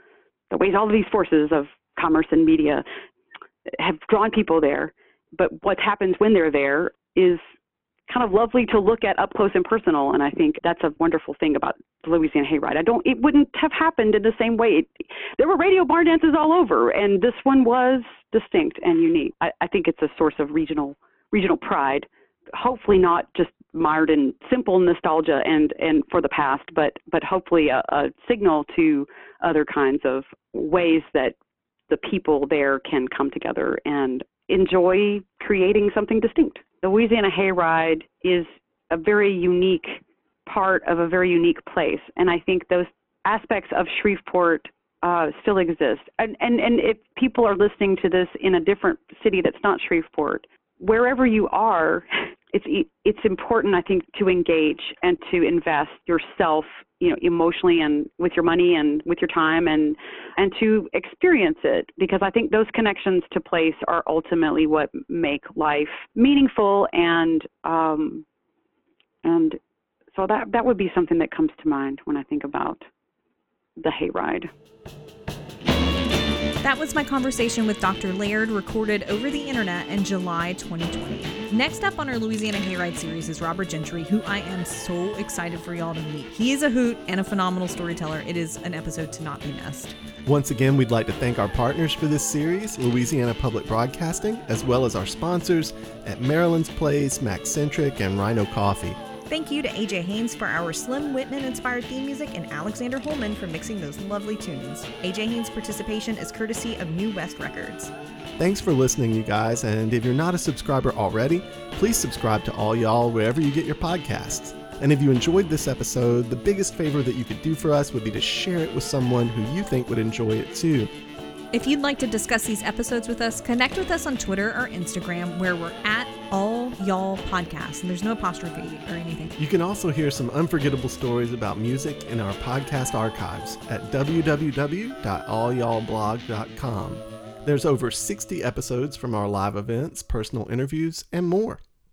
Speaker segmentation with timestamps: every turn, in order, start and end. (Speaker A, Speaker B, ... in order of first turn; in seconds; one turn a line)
Speaker A: 0.5-2.9
Speaker A: 3.7-7.4
Speaker A: 8.1-31.4
Speaker A: 31.9-68.2
Speaker A: 69.2-69.6
Speaker A: 70.1-72.9
Speaker A: 73.8-74.5
Speaker B: 76.6-90.0
Speaker C: 90.2-99.0
Speaker B: 99.3-107.9
Speaker C: 108.4-120.9
Speaker B: 121.5-129.3
Speaker C: 129.4-141.6